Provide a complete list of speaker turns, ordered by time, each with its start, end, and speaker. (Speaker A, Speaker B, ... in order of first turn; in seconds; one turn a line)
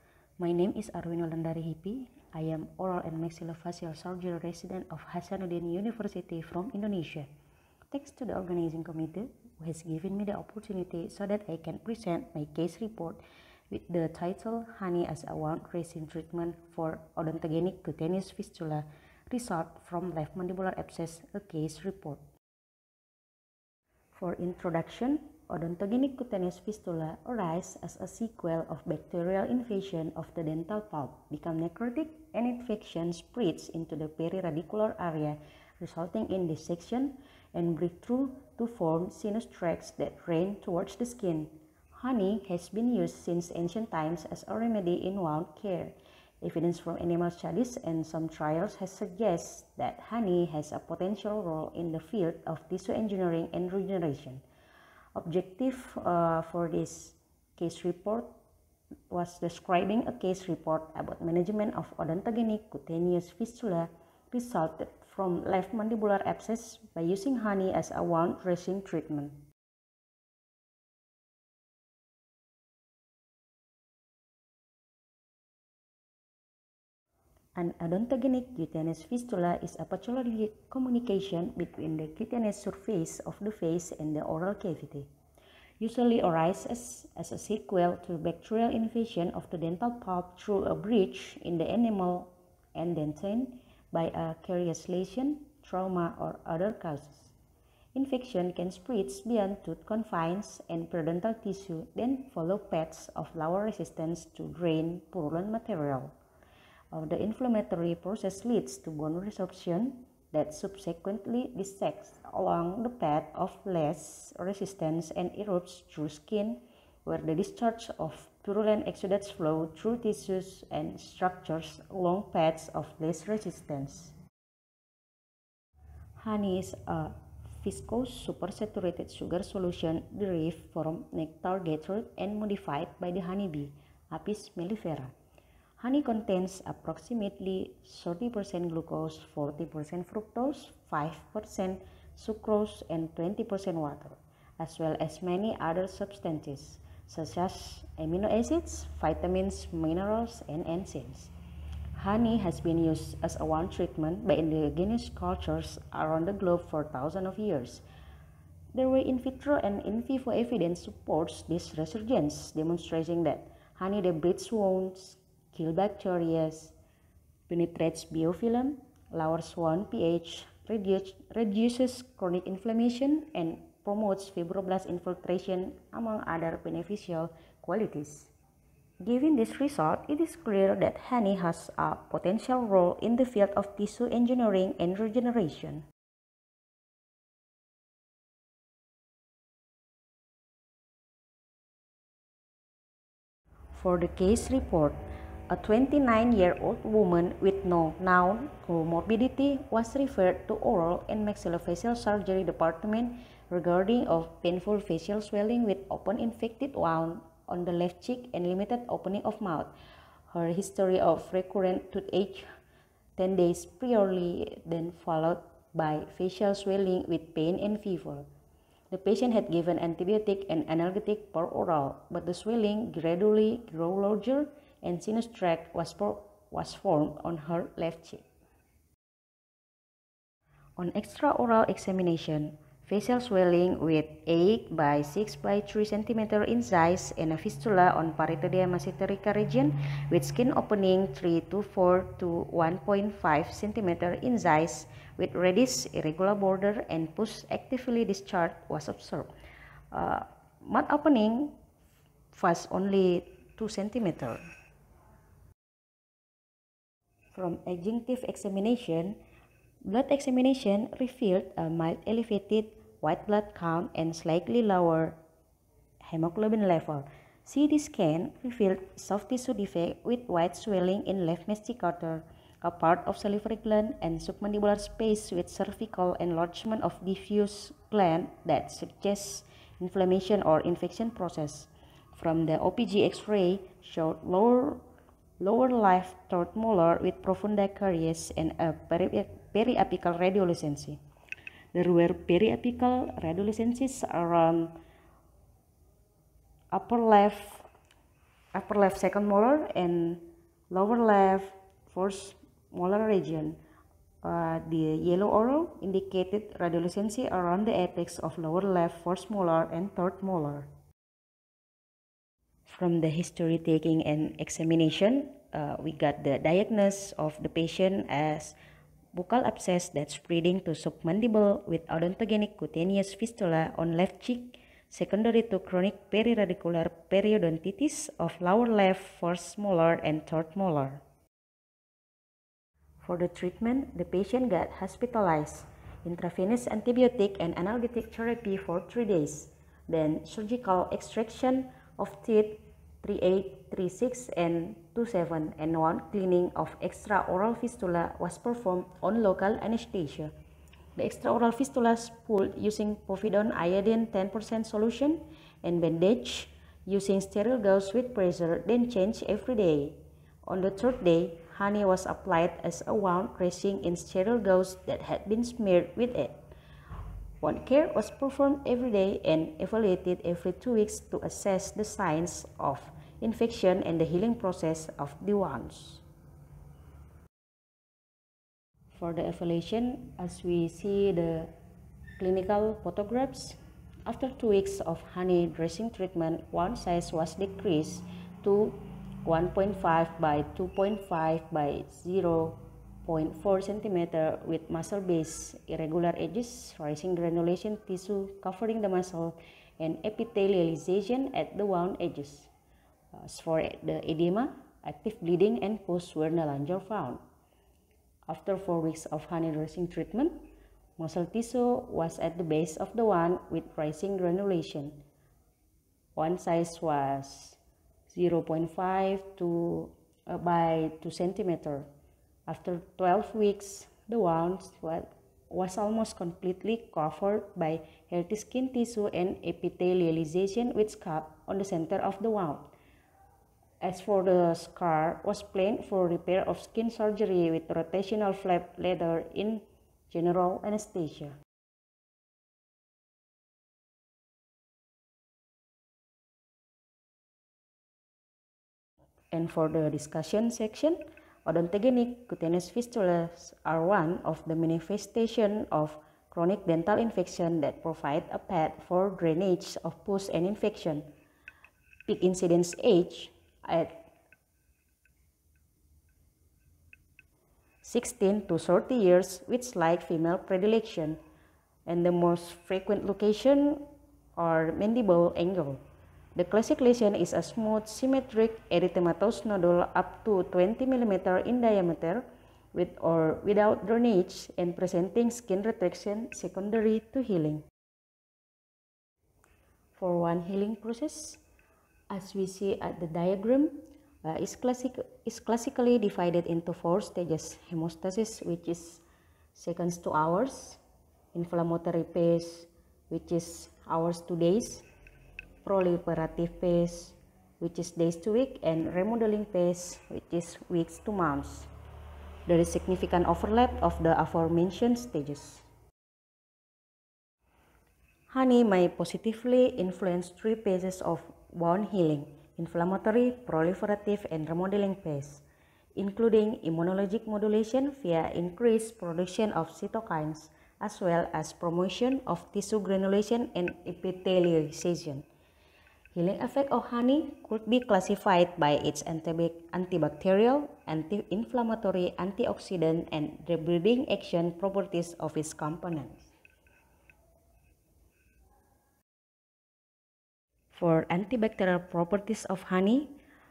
Speaker A: 0.4-7.3
Speaker A: 7.9-13.2
Speaker A: 13.7-22.2
Speaker A: 24.1-54.4
Speaker A: 55.1-58.3
Speaker A: 59.1-69.4
Speaker A: 77.5-85.1
Speaker A: 85.8-97.3
Speaker A: 97.9-106.1
Speaker A: 106.9-124.1
Speaker A: 126.2-135.1
Speaker A: 135.8-151.3
Speaker A: 151.9-157.8
Speaker A: 158.7-166.7
Speaker A: 167.5-178.3
Speaker A: 179.0-185.8
Speaker A: 193.7-209.7
Speaker A: 210.3-212.4
Speaker A: 213.2-218.2
Speaker A: 218.9-228.2
Speaker A: 230.8-249.3
Speaker A: 249.9-251.6
Speaker A: 252.3-254.4
Speaker A: 257.3-259.2
Speaker A: 259.8-265.2
Speaker A: 266.0-284.8
Speaker A: 285.4-291.0
Speaker A: 291.7-294.8
Speaker A: 296.7-297.7
Speaker A: 298.5-303.6
Speaker A: 304.2-310.7
Speaker A: 312.6-318.6
Speaker A: 319.1-331.0
Speaker A: 333.0-350.3
Speaker A: 351.0-366.4
Speaker A: 367.4-376.0
Speaker A: 378.9-381.5
Speaker A: 382.2-402.5
Speaker A: 403.1-407.2
Speaker A: 408.3-410.4
Speaker A: 411.0-415.0
Speaker A: 416.1-421.9
Speaker A: 422.5-432.7
Speaker A: 433.8-441.4
Speaker A: 449.3-461.1
Speaker A: 462.1-463.9
Speaker A: 467.8-471.2
Speaker A: 471.9-473.8
Speaker A: 474.4-475.8
Speaker A: 476.4-482.2
Speaker A: 482.7-487.6
Speaker A: 489.9-491.4
Speaker A: 492.1-499.0
Speaker A: 499.5-500.8
Speaker A: 501.3-504.9
Speaker A: 505.6-511.7
Speaker A: 512.5-515.7
Speaker A: 518.3-525.4
Speaker A: 526.0-535.2
Speaker A: 536.1-546.3
Speaker A: 550.7-553.1